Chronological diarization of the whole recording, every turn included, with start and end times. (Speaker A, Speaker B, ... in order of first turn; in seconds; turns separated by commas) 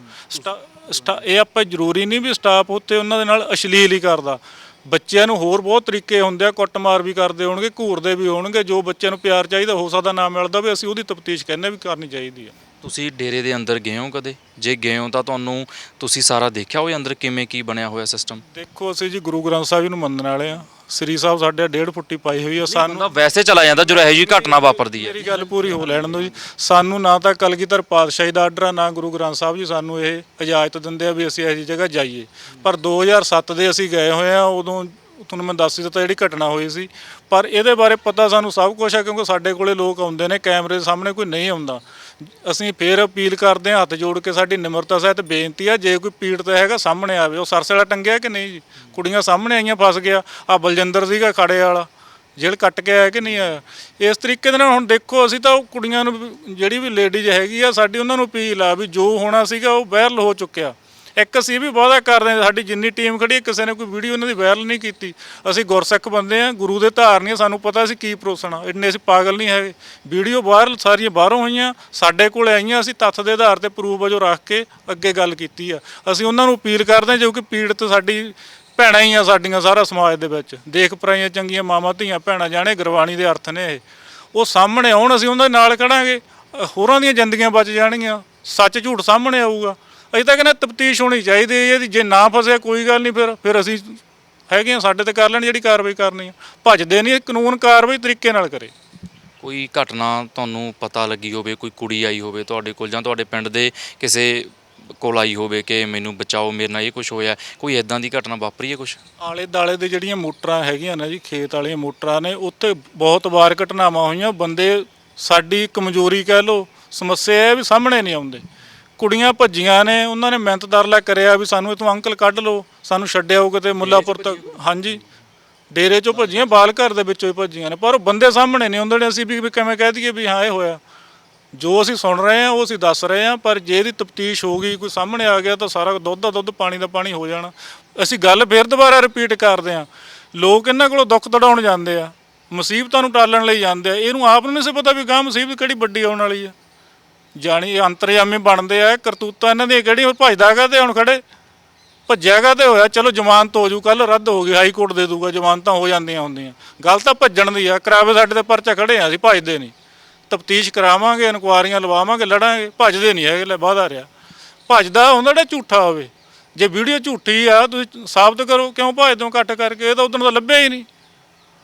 Speaker A: 0.3-12.5, Speaker B: 12.8-18.4, Speaker A: 18.5-23.1, Speaker B: 22.7-26.4, Speaker A: 23.8-98.7, Speaker B: 99.4-109.0, Speaker A: 109.2-118.4, Speaker A: 119.0-125.0, Speaker B: 123.8-124.4, Speaker A: 125.7-130.8, Speaker A: 131.5-146.5, Speaker A: 147.4-151.2, Speaker A: 152.1-159.7, Speaker A: 160.3-164.1, Speaker A: 164.7-170.9